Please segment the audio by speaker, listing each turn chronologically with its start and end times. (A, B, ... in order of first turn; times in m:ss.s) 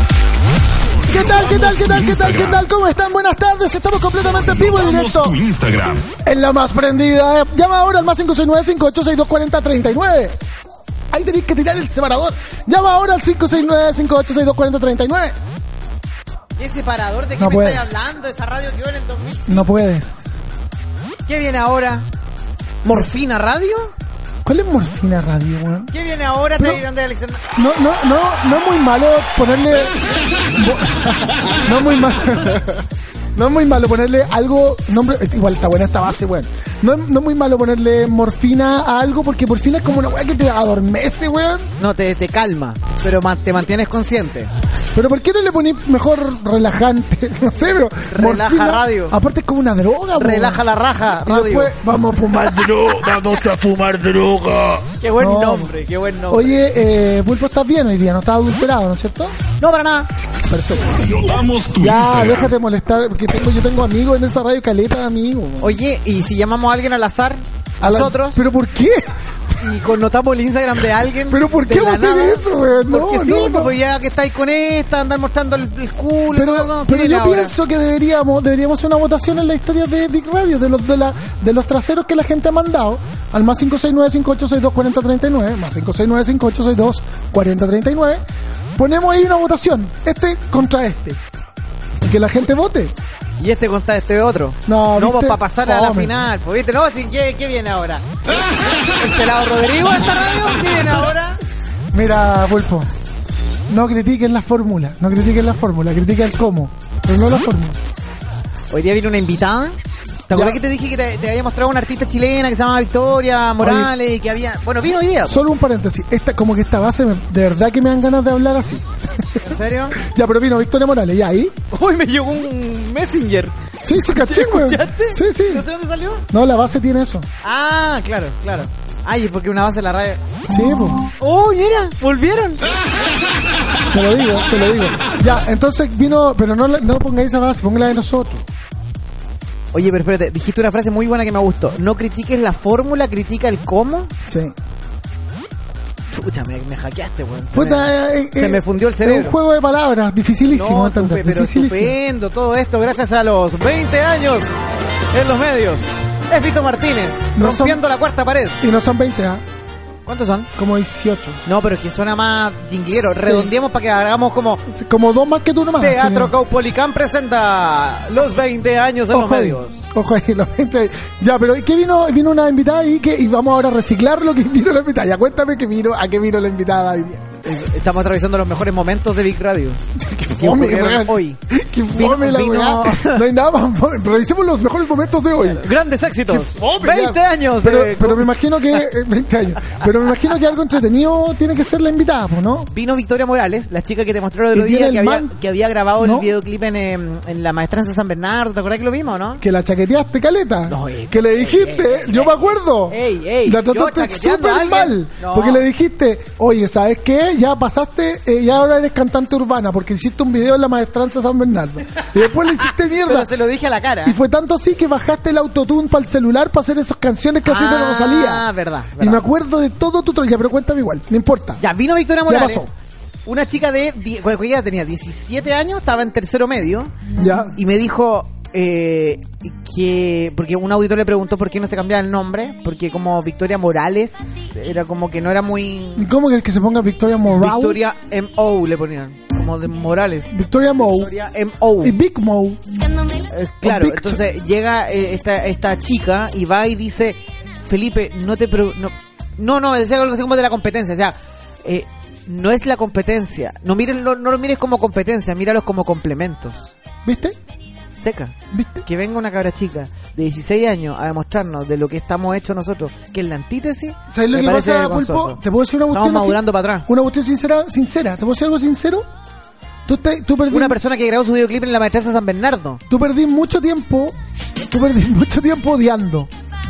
0:00.8-0:02.6 A
0:01.1-0:05.4 B
0:04.2-0:06.1 A
0:06.2-0:10.4 B
0:11.1-0:15.4 B
0:16.6-0:19.7 C
0:17.4-0:18.1 B
0:19.5-0:20.4 B
0:21.2-0:22.0 C
0:22.8-0:23.9 C
0:24.4-0:25.9 B
0:25.9-0:27.4 C
0:26.6-0:26.8 B
0:27.6-0:30.0 B
0:30.5-0:41.7 B
0:41.8-0:44.5 C
0:44.9-0:55.7 B
0:48.1-0:49.2 C
0:50.2-0:51.7 C
0:55.0-0:56.6 C
0:56.3-0:59.4 B
0:59.6-1:00.1 C
1:00.5-1:01.0 B
1:00.9-1:02.5 A
1:01.8-1:05.8 B
1:05.6-1:08.4 C
1:07.8-1:09.1 B
1:09.6-1:17.5 C
1:11.2-1:13.7 B
1:16.3-1:28.2 B
1:28.8-1:31.2 B
1:32.0-1:32.9 B
1:33.4-1:38.1 C
1:34.6-1:36.2 B
1:38.8-1:41.4 C
1:41.9-1:42.9 B
1:43.7-1:47.8 B
1:48.7-1:49.8 C
1:50.3-1:55.4 C
1:50.3-1:50.6 B
1:53.6-1:53.9 B
1:55.2-2:01.6 B
1:59.4-2:00.0 C
2:01.7-2:06.2 C
2:03.8-2:05.6 B
2:06.3-2:07.3 B
2:07.4-2:10.2 C
2:10.5-2:11.1 B
2:11.2-2:12.6 C
2:13.9-2:18.5 B
2:19.7-2:24.1 C
2:24.3-2:24.6 B
2:26.1-2:29.4 C
2:27.5-2:32.0 B
2:30.4-2:34.5 C
2:35.1-2:38.6 C
2:37.3-2:37.8 B
2:38.6-2:39.4 B
2:40.0-2:40.5 C
2:40.6-2:41.4 B
2:41.4-2:44.6 C
2:43.0-2:43.5 B
2:44.7-2:46.3 B
2:45.8-2:49.8 C
2:49.1-2:57.3 B
2:57.4-2:59.8 C
2:59.9-3:05.7 B
3:00.4-3:01.4 C
3:01.9-3:03.2 C
3:05.4-3:08.8 C
3:06.3-3:12.7 B
3:12.7-3:19.4 C
3:14.5-3:15.3 B
3:16.0-3:16.3 B
3:19.4-3:33.3 B
3:20.7-3:25.6 C
3:32.6-3:34.2 C
3:34.0-3:41.6 B
3:37.4-3:39.2 C
3:41.6-3:42.7 C
3:42.2-3:42.7 B
3:43.2-3:46.9 C
3:47.2-3:47.5 B
3:47.5-3:56.1 C
3:56.0-3:57.9 B
3:57.3-4:00.3 C
4:00.3-4:01.1 B
4:00.9-4:02.0 C
4:01.8-4:02.8 B
4:03.3-4:16.7 C
4:03.6-4:04.2 B
4:17.0-4:17.4 B
4:17.9-4:25.4 C
4:18.5-4:18.8 B
4:24.1-4:29.0 B
4:25.9-4:26.9 C
4:29.8-4:30.8 B
4:30.5-4:32.8 C
4:32.9-4:36.3 B